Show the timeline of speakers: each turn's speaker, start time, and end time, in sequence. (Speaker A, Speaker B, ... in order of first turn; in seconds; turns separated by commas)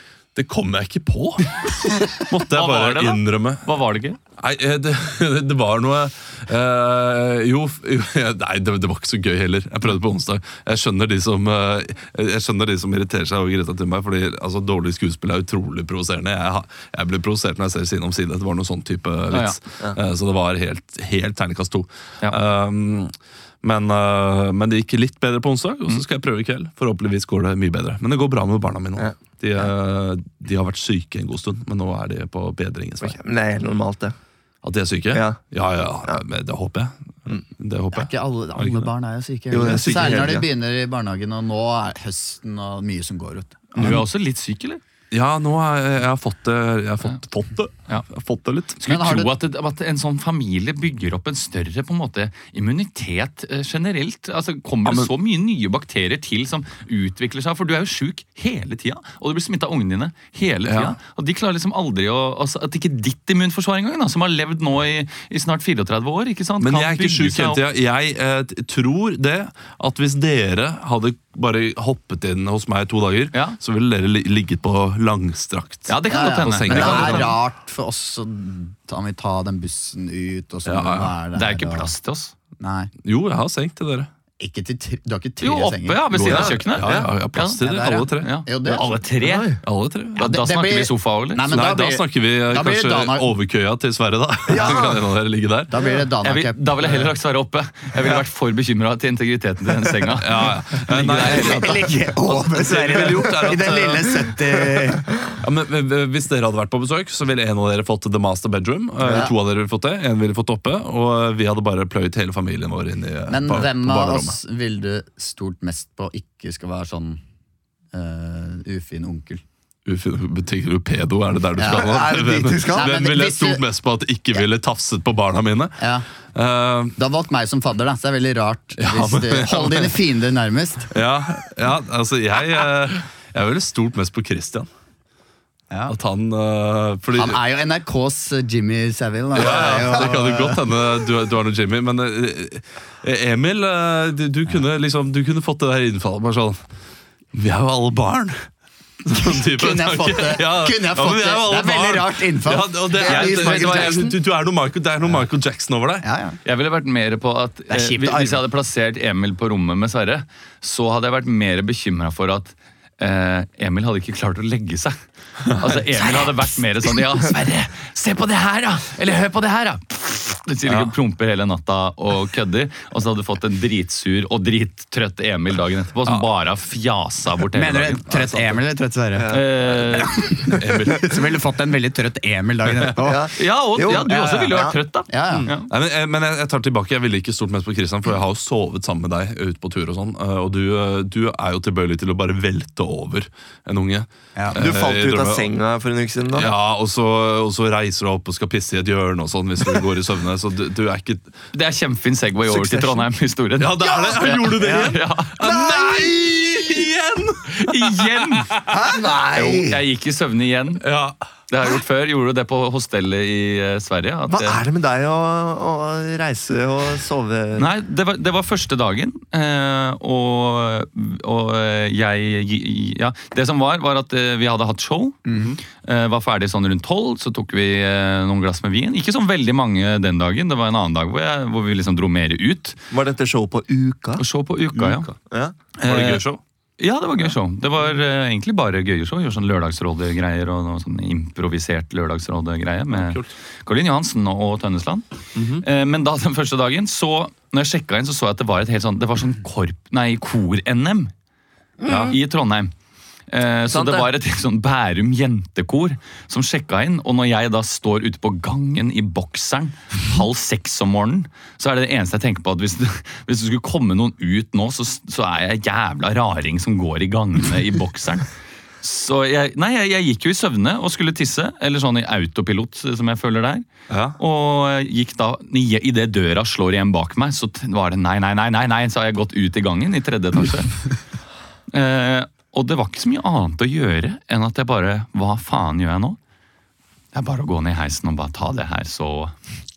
Speaker A: 0.3-3.6, Speaker B: 2.5-4.2, Speaker A: 4.4-33.2, Speaker B: 19.3-19.6, Speaker C: 33.0-34.1, Speaker A: 34.6-38.9, Speaker C: 35.1-35.4, Speaker D: 37.9-44.0, Speaker C: 39.5-40.5, Speaker A: 39.6-40.3, Speaker B: 43.8-44.8, Speaker A: 45.1-48.8, Speaker B: 48.8-67.6, Speaker D: 48.8-49.3, Speaker A: 54.8-55.1, Speaker A: 60.6-61.0, Speaker A: 66.6-77.4, Speaker B: 73.3-73.6, Speaker B: 75.9-77.4, Speaker D: 76.1-81.9, Speaker A: 80.7-81.1, Speaker B: 81.3-82.3, Speaker D: 82.6-82.9, Speaker A: 83.0-84.1, Speaker D: 84.4-86.5, Speaker B: 85.4-89.6, Speaker A: 86.1-88.3, Speaker D: 87.6-88.9, Speaker C: 89.2-89.6, Speaker A: 89.6-90.2, Speaker B: 90.2-91.6, Speaker D: 90.2-93.3, Speaker A: 91.5-95.7, Speaker C: 94.5-95.0, Speaker D: 95.7-96.6, Speaker B: 96.2-101.9, Speaker A: 100.1-104.3, Speaker D: 101.2-105.1, Speaker A: 105.3-114.3, Speaker C: 109.0-109.3, Speaker D: 113.3-117.2, Speaker D: 117.9-119.4, Speaker A: 119.8-125.8, Speaker D: 121.5-121.9, Speaker C: 121.6-123.0, Speaker D: 122.7-123.6, Speaker D: 125.8-126.0, Speaker A: 126.3-126.9, Speaker D: 127.0-130.9, Speaker A: 128.8-129.9, Speaker A: 130.9-134.7, Speaker D: 135.7-135.9, Speaker A: 135.9-137.4, Speaker D: 137.1-140.6, Speaker A: 139.3-146.6, Speaker A: 147.3-148.5, Speaker A: 149.0-156.0, Speaker D: 149.1-153.9, Speaker C: 152.9-154.2, Speaker D: 156.0-156.4, Speaker B: 156.4-178.1, Speaker D: 157.7-158.4, Speaker A: 170.7-170.9, Speaker D: 177.5-179.3, Speaker A: 178.1-178.5, Speaker C: 179.1-179.6, Speaker B: 179.3-180.3, Speaker D: 180.0-183.3, Speaker A: 180.5-181.2, Speaker C: 183.0-184.8, Speaker B: 183.4-185.7, Speaker D: 183.8-185.5, Speaker A: 185.7-195.5, Speaker C: 194.5-196.5, Speaker A: 196.3-201.4, Speaker B: 201.5-205.3, Speaker C: 202.5-203.0, Speaker A: 203.6-208.7, Speaker C: 203.8-206.7, Speaker B: 207.6-208.7, Speaker C: 208.7-209.8, Speaker B: 209.3-210.8, Speaker A: 210.8-211.2, Speaker B: 211.5-214.6, Speaker C: 214.3-217.7, Speaker B: 217.6-232.8, Speaker D: 225.3-225.5, Speaker C: 232.9-234.2, Speaker B: 234.2-235.1, Speaker A: 234.7-235.2, Speaker C: 235.3-235.6, Speaker B: 235.8-236.2, Speaker A: 235.8-236.4, Speaker B: 236.8-245.1, Speaker A: 242.9-243.3, Speaker C: 245.3-245.6, Speaker B: 245.6-251.1, Speaker C: 251.8-252.2, Speaker A: 251.9-252.2, Speaker B: 251.9-252.7, Speaker B: 253.3-268.3, Speaker C: 253.7-254.1, Speaker B: 268.8-273.6, Speaker A: 273.9-274.2, Speaker B: 274.2-280.8, Speaker B: 281.7-286.2, Speaker B: 287.1-289.3